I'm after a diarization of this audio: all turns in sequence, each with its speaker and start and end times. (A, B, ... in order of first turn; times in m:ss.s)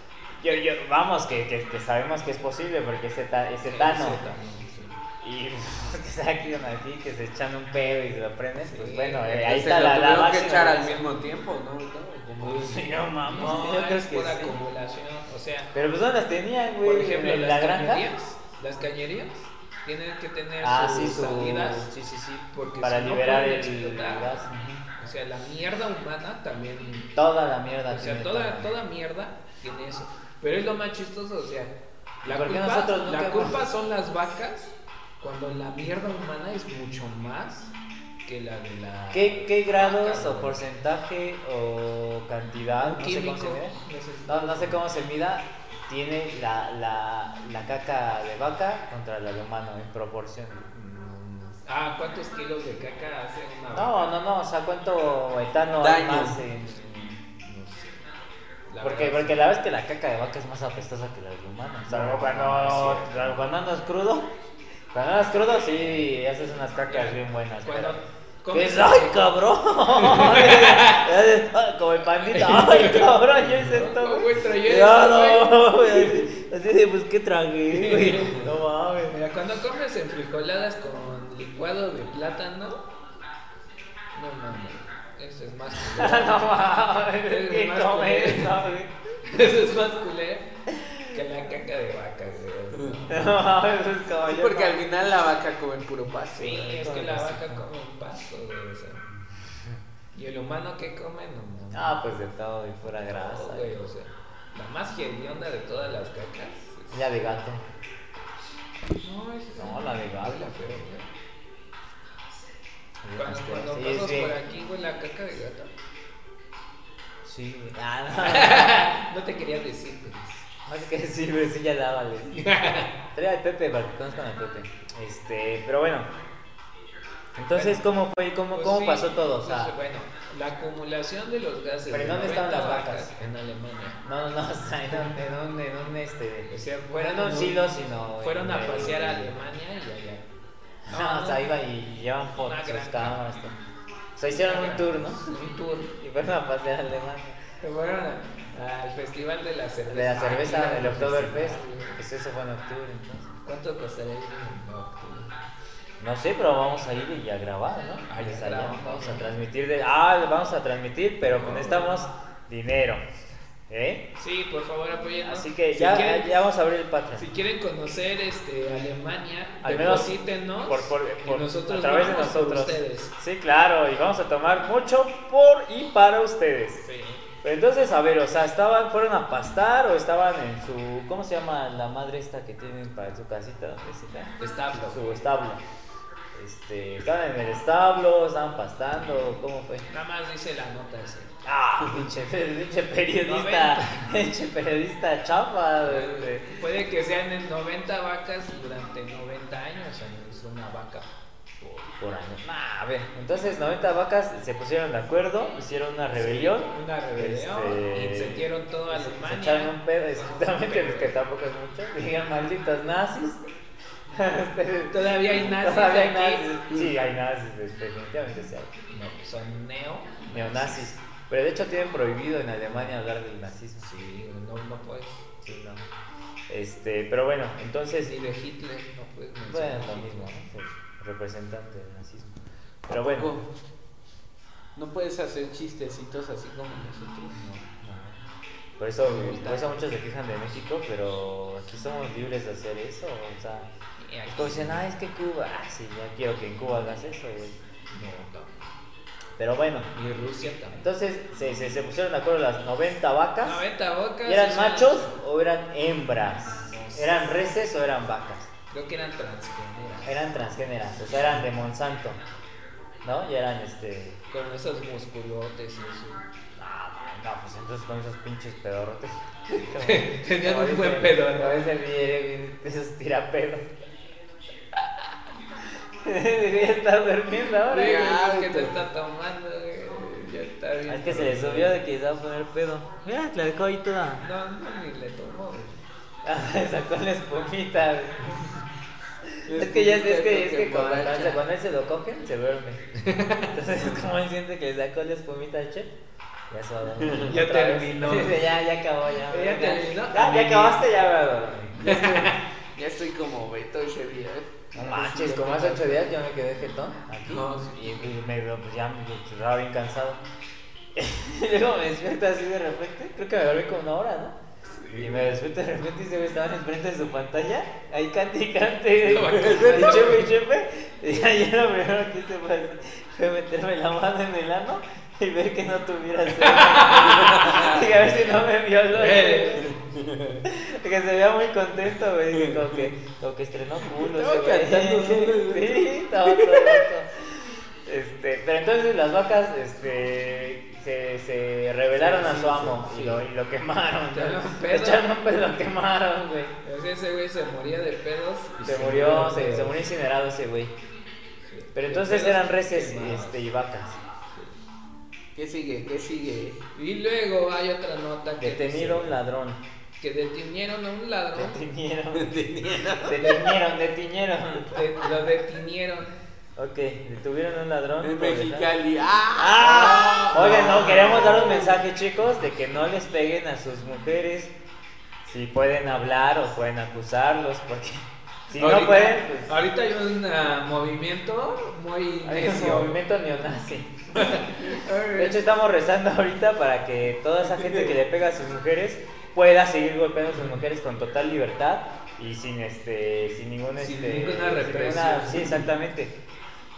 0:00.4-0:04.2 A
0:03.7-0:04.9 B
0:05.2-0:11.0 A
0:08.6-0:09.6 B
0:09.4-0:12.8 C
0:12.4-0:14.6 A
0:13.2-0:15.7 B
0:15.7-0:18.1 A
0:16.8-0:24.4 B
0:20.6-0:21.9 A
0:22.8-0:24.8 A
0:25.0-0:27.1 B
0:27.2-0:28.7 A
0:27.9-0:37.7 B
0:32.2-0:33.6 A
0:38.2-0:40.6 B
0:39.1-0:51.4 A
0:42.8-0:44.8 B
0:51.4-0:54.1 B
0:53.7-0:57.2 A
0:55.8-0:56.4 C
0:57.4-0:58.1 B
0:58.7-0:59.4 B
0:58.8-1:04.3 A
1:01.9-1:03.4 B
1:04.9-1:19.2 A
1:06.9-1:09.2 B
1:09.9-1:11.2 B
1:12.2-1:16.2 B
1:17.7-1:18.5 B
1:19.1-1:22.9 B
1:24.1-1:26.5 B
1:25.8-1:28.9 A
1:27.2-1:28.6 B
1:29.2-1:30.5 B
1:30.7-1:31.1 A
1:31.1-1:33.5 B
1:33.1-1:34.8 A
1:34.3-1:36.8 C
1:36.3-1:39.0 B
1:36.5-1:37.6 A
1:40.1-1:42.1 B
1:41.7-1:43.8 A
1:43.1-1:47.2 B
1:46.9-1:47.6 A
1:49.0-1:51.1 B
1:49.6-1:50.9 A
1:53.0-1:54.4 A
1:53.2-1:55.7 B
1:57.2-1:58.8 A
1:58.2-2:00.4 B
2:00.6-2:02.4 A
2:02.3-2:02.9 B
2:03.1-2:06.1 A
2:07.4-2:09.7 A
2:07.5-2:07.8 B
2:08.5-2:14.0 B
2:11.9-2:13.1 A
2:14.0-2:19.4 A
2:16.5-2:20.2 B
2:20.9-2:21.5 B
2:20.9-2:23.6 A
2:22.4-2:23.2 B
2:24.2-2:25.3 A
2:24.3-2:26.0 B
2:26.0-2:27.4 A
2:27.6-2:32.0 B
2:29.9-2:33.3 A
2:33.4-2:35.4 B
2:36.0-2:43.0 A
2:38.1-2:39.3 B
2:41.3-2:42.0 B
2:43.7-2:44.1 A
2:44.2-2:46.3 B
2:45.2-2:47.3 A
2:47.1-2:53.2 B
2:49.6-2:56.8 A
2:56.8-2:57.2 B
2:57.4-3:04.4 A
3:04.4-3:05.0 B
3:04.9-3:05.6 A
3:06.3-3:09.9 A
3:09.9-3:11.3 B
3:11.4-3:16.5 A
3:13.2-3:14.1 B
3:15.9-3:21.1 B
3:21.6-3:21.9 B
3:22.0-3:33.4 A
3:26.1-3:31.2 B
3:34.1-3:38.7 A
3:34.9-3:36.5 B
3:38.9-3:41.0 B
3:40.3-3:43.9 A
3:43.8-3:45.2 B
3:45.4-3:45.9 A
3:46.5-3:48.2 A
3:48.0-3:50.3 B
3:49.5-3:53.3 A
3:53.0-3:53.5 C
3:54.8-3:57.4 C
3:57.4-3:58.2 A
3:58.8-4:03.7 A
3:59.0-3:59.8 B
4:04.0-4:04.9 B
4:04.3-4:07.6 A
4:07.9-4:08.7 B
4:09.4-4:09.9 A
4:09.9-4:10.9 B
4:10.8-4:13.6 A
4:13.4-4:15.1 B
4:14.2-4:18.5 A
4:16.7-4:17.2 B
4:18.7-4:20.2 B
4:20.0-4:22.2 A
4:23.0-4:24.2 A
4:24.3-4:26.2 B
4:26.6-4:33.7 A
4:29.6-4:31.7 B
4:36.0-4:38.3 A
4:37.7-4:41.8 B
4:37.8-4:38.8 C
4:40.9-4:44.2 A
4:44.2-4:45.8 B
4:46.2-4:48.3 A
4:49.4-4:52.8 A
4:49.5-4:51.4 C
4:53.0-4:53.6 B
4:53.4-4:55.9 A
4:56.5-5:02.3 A
4:57.0-4:57.3 C
4:57.2-4:58.5 B
4:59.3-5:00.8 B
5:01.8-5:02.4 B
5:01.8-5:06.0 C
5:04.8-5:10.2 A
5:07.2-5:08.1 B
5:11.0-5:14.4 A
5:14.7-5:15.3 B
5:15.0-5:29.7 A
5:19.0-5:20.3 B
5:19.4-5:20.2 C
5:26.4-5:28.1 B
5:27.2-5:27.7 C
5:28.9-5:29.7 B
5:29.6-5:30.4 C
5:30.4-5:46.5 A
5:32.4-5:32.9 C
5:33.9-5:36.9 C
5:42.0-5:43.2 B
5:42.2-5:42.9 C
5:44.1-5:45.1 B
5:46.6-5:49.8 B
5:48.6-5:50.8 A
5:51.5-5:53.4 B
5:51.7-5:54.0 A
5:55.4-5:56.6 C
5:56.7-5:59.2 B
5:58.4-5:59.6 A
6:00.0-6:01.6 B
6:01.4-6:02.4 A
6:02.1-6:03.5 C
6:03.0-6:04.9 A
6:04.6-6:06.1 B
6:06.6-6:08.7 A
6:08.0-6:11.8 C
6:09.4-6:14.5 A
6:09.9-6:11.3 B
6:15.2-6:19.6 A
6:18.5-6:23.0 B
6:22.2-6:24.6 A
6:24.1-6:25.4 B
6:25.1-6:36.2 A
6:33.8-6:35.7 B